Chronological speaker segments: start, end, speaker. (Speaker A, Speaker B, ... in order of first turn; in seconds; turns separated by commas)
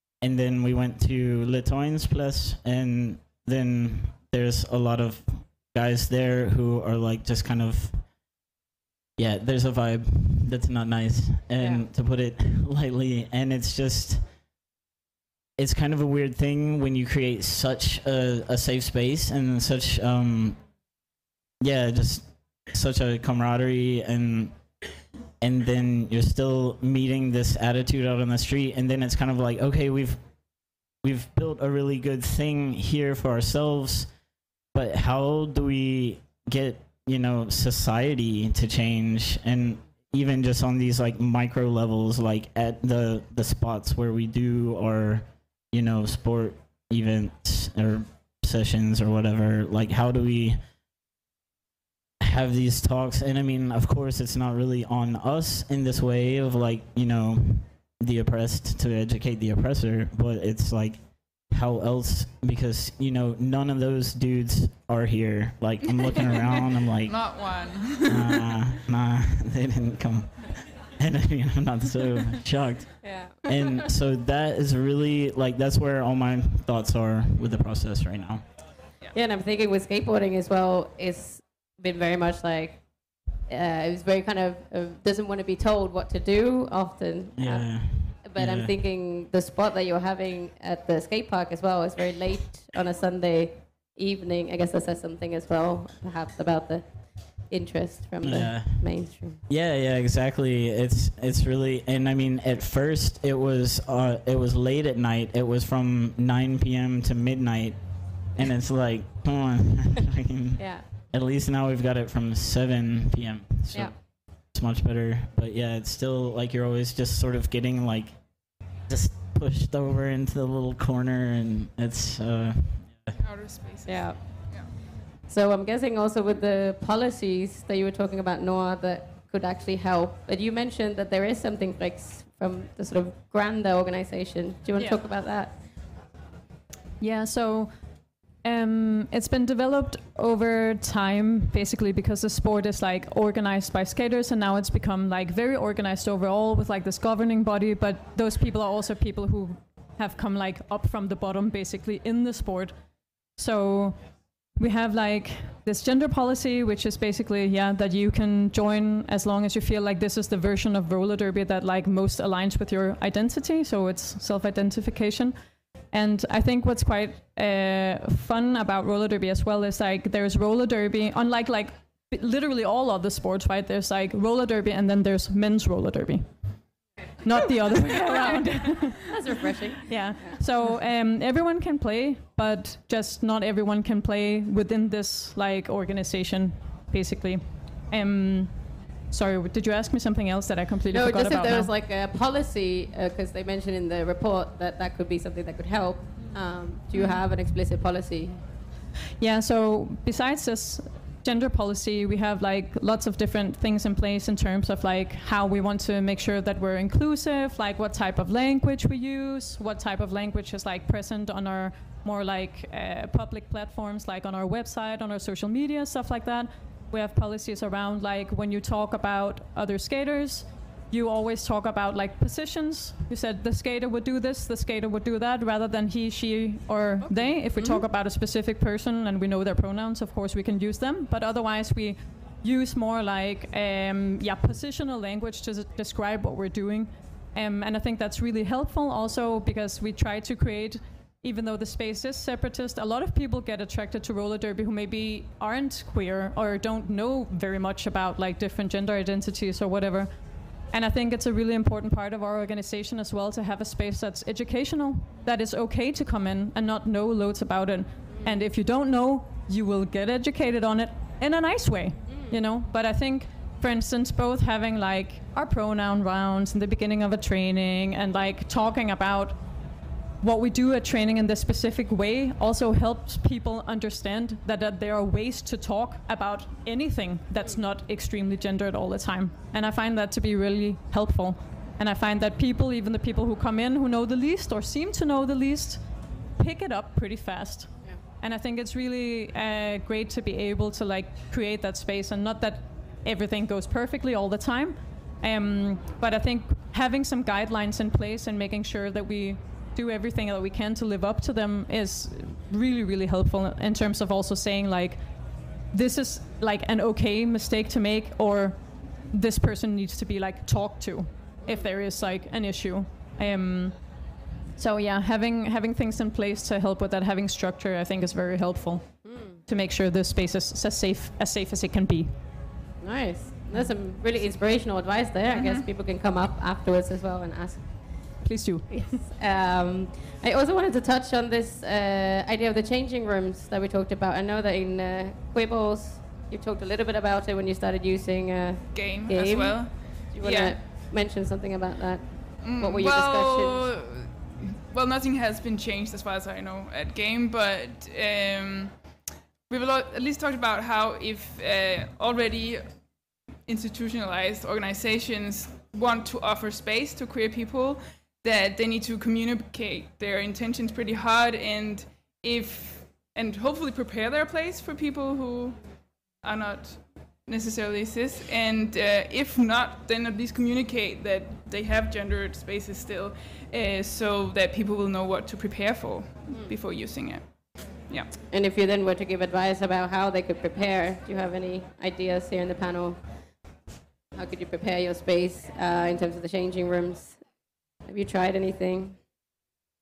Speaker A: 0.2-8.1, Speaker A: 9.2-14.2, Speaker B: 11.6-11.9, Speaker A: 15.6-20.6, Speaker A: 21.6-24.6, Speaker A: 25.4-30.2, Speaker A: 31.0-34.1, Speaker A: 34.7-50.6, Speaker A: 52.2-78.4, Speaker C: 66.0-68.5, Speaker B: 73.0-73.9, Speaker B: 79.1-82.8, Speaker B: 83.4-99.4, Speaker A: 87.3-88.7, Speaker A: 98.2-118.2, Speaker B: 110.6-110.9, Speaker B: 113.7-114.0, Speaker A: 118.8-123.1, Speaker C: 123.2-124.7, Speaker B: 123.8-135.6, Speaker D: 137.0-137.7, Speaker D: 138.4-152.7, Speaker D: 153.3-154.0, Speaker D: 154.6-165.3, Speaker D: 165.9-176.3, Speaker D: 177.2-179.1, Speaker B: 179.1-180.4, Speaker D: 179.8-191.7, Speaker B: 190.9-198.4, Speaker C: 196.9-197.2, Speaker D: 199.2-250.1, Speaker B: 227.5-227.8, Speaker D: 250.7-269.4, Speaker B: 258.1-258.4, Speaker B: 262.1-262.4, Speaker D: 270.2-285.8, Speaker D: 286.4-305.0, Speaker D: 305.7-313.8, Speaker D: 314.6-322.1, Speaker B: 319.0-319.4, Speaker B: 322.8-327.8, Speaker C: 325.3-325.7, Speaker D: 328.2-328.9, Speaker B: 328.7-343.7, Speaker C: 338.7-340.7, Speaker C: 342.4-348.9, Speaker C: 349.5-352.7, Speaker C: 353.4-365.6, Speaker C: 366.2-378.1, Speaker B: 376.3-376.5, Speaker B: 378.3-383.0, Speaker B: 384.1-387.2, Speaker B: 387.8-389.0